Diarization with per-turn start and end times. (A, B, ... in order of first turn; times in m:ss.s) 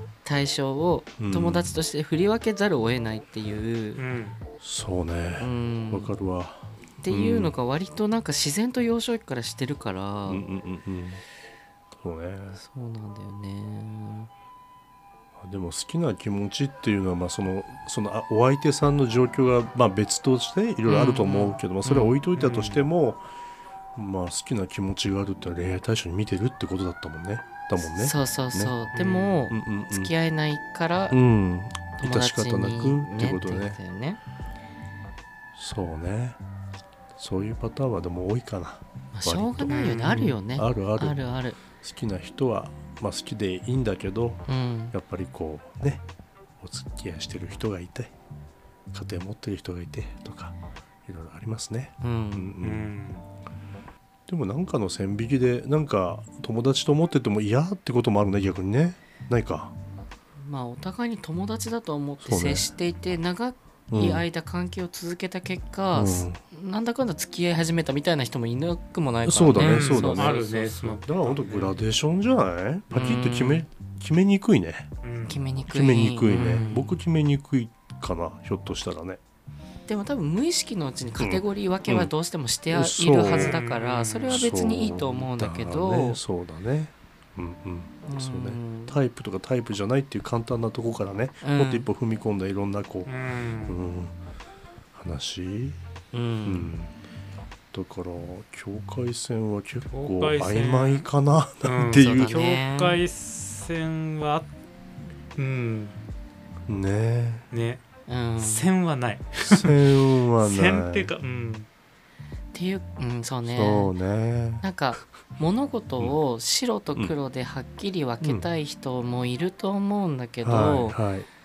0:00.2-0:04.0 A
0:01.2-0:01.7 B
0:04.0-0:04.4 C
0:04.6-0:07.5 B
0:05.4-0:06.1 A
0:07.0-0:10.4 A
0:10.3-0:11.2 B
0:12.0-0:12.6 B
0:12.5-0:14.3 A
0:15.4-0:23.2 B
0:20.9-0:22.1 A
0:22.4-0:22.8 C
0:23.9-0:28.8 B
0:27.8-0:31.2 A
0:28.9-0:29.4 C
0:29.5-0:30.1 B
0:31.1-0:33.8 B
0:32.0-0:34.2 A
0:35.5-0:36.4 B
0:37.2-0:41.2 B
0:39.1-0:41.6 A
0:39.7-0:40.4 C
0:41.7-0:46.0 B
0:44.5-0:44.9 A
0:46.6-0:48.1 B
0:48.9-0:50.5 B
0:51.0-0:52.9 B
0:52.0-0:52.6 A
0:52.6-0:53.2 C
0:54.3-0:59.7 B
1:00.4-1:10.4 A
1:02.2-1:02.7 B
1:03.9-1:04.2 B
1:05.9-1:06.4 B
1:09.2-1:14.9 B
1:09.6-1:11.7 C
1:12.9-1:13.6 A
1:15.0-1:15.4 C
1:15.2-1:17.0 A
1:15.7-1:19.2 B
1:19.9-1:26.2 A
1:21.2-1:22.1 B
1:22.7-1:23.6 B
1:23.3-1:24.4 C
1:24.3-1:33.1 B
1:28.0-1:29.0 A
1:31.4-1:31.9 A
1:33.0-1:33.8 C
1:33.6-1:34.2 B
1:34.9-1:35.8 B
1:36.1-1:36.7 A
1:36.4-1:36.9 B
1:37.7-1:42.4 B
1:39.9-1:41.1 C
1:41.6-1:44.5 C
1:41.9-1:43.0 A
1:45.4-1:46.0 C
1:46.7-1:47.5 B
1:47.5-1:47.8 C
1:48.1-1:48.7 A
1:48.4-1:51.7 C
1:49.5-1:51.1 B
1:52.5-1:53.9 A
1:53.4-1:54.6 B
1:54.6-2:01.0 A
1:58.2-1:58.5 B
2:00.4-2:01.3 B